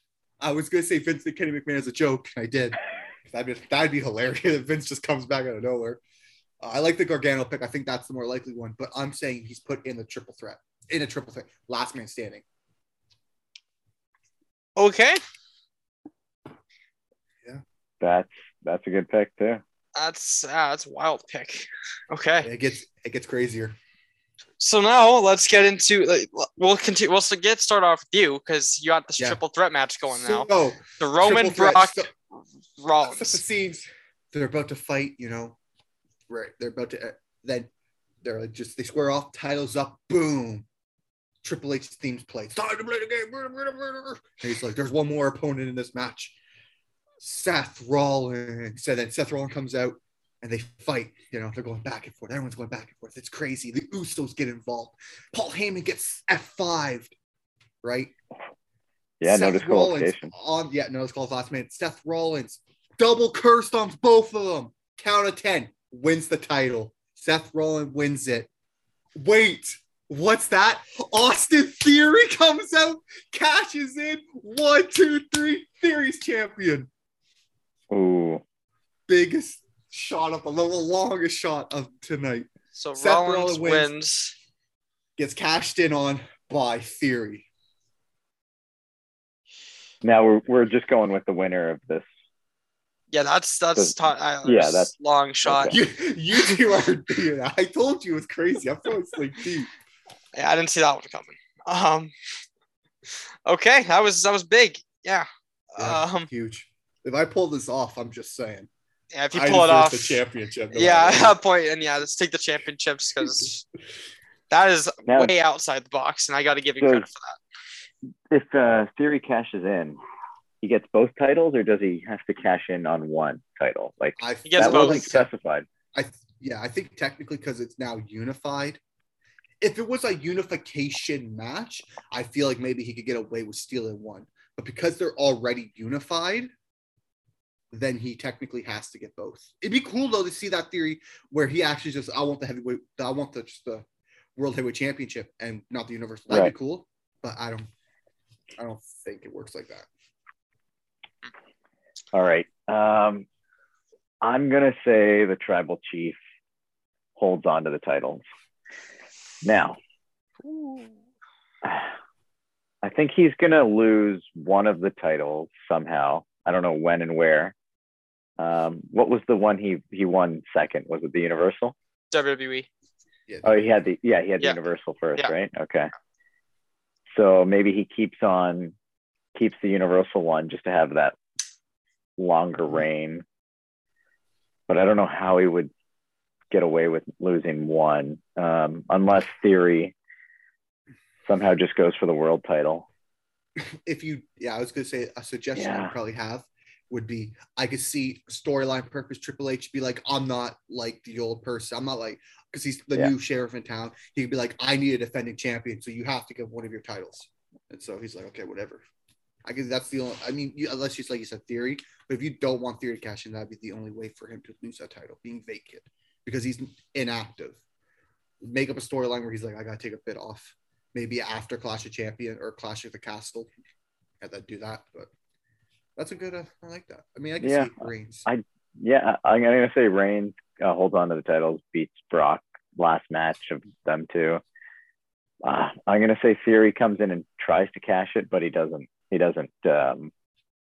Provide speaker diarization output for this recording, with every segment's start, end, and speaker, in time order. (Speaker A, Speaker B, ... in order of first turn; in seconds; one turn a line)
Speaker A: 0.4-2.8
Speaker A: 3.3-6.0
Speaker A: 6.6-12.4
Speaker B: 14.8-15.2
Speaker C: 18.0-19.6
Speaker B: 19.9-22.5
Speaker A: 22.4-23.8
Speaker B: 24.6-32.1
Speaker A: 30.1-32.1
Speaker B: 32.8-33.4
Speaker A: 33.1-35.6
Speaker A: 36.3-37.7
Speaker A: 38.2-40.7
Speaker A: 41.4-46.4
Speaker A: 47.2-57.1
Speaker A: 57.8-58.1
Speaker C: 59.2-60.3
Speaker A: 59.2-68.5
Speaker A: 69.2-76.9
Speaker C: 77.9-78.4
Speaker A: 79.1-83.9
Speaker B: 82.7-84.3
Speaker A: 85.2-87.5
Speaker C: 90.0-92.0
Speaker B: 93.1-95.8
Speaker C: 93.8-94.9
Speaker C: 95.4-95.8
Speaker A: 95.7-99.7
Speaker B: 100.3-102.1
Speaker B: 103.5-106.3
Speaker A: 105.8-108.7
Speaker B: 109.1-110.2
Speaker A: 109.3-111.4
Speaker B: 110.7-113.6
Speaker B: 114.5-117.4
Speaker C: 115.1-115.3
Speaker C: 116.8-117.1
Speaker C: 118.3-120.0
Speaker C: 120.6-125.7
Speaker A: 124.2-125.3
Speaker B: 124.4-125.1
Speaker A: 125.9-128.8
Speaker A: 129.6-136.5
Speaker A: 137.7-143.8
Speaker A: 144.3-147.7
Speaker A: 148.6-149.9
Speaker C: 152.1-153.2
Speaker C: 154.2-156.2
Speaker C: 157.2-158.2
Speaker C: 159.4-159.8
Speaker B: 160.4-160.9
Speaker C: 161.6-161.9
Speaker C: 162.8-167.5
Speaker C: 168.4-171.7
Speaker B: 172.1-172.7
Speaker A: 173.3-173.8
Speaker C: 173.4-175.9
Speaker C: 177.1-178.7
Speaker C: 179.3-181.2
Speaker C: 182.2-183.2
Speaker C: 184.7-185.7
Speaker C: 186.5-189.9
Speaker C: 191.2-192.9
Speaker A: 193.6-208.8
Speaker C: 195.5-195.9
Speaker A: 209.4-217.6
Speaker A: 218.4-223.5
Speaker A: 224.2-225.1
Speaker A: 225.9-228.3
Speaker C: 227.4-227.7
Speaker C: 228.3-234.4
Speaker C: 235.4-240.1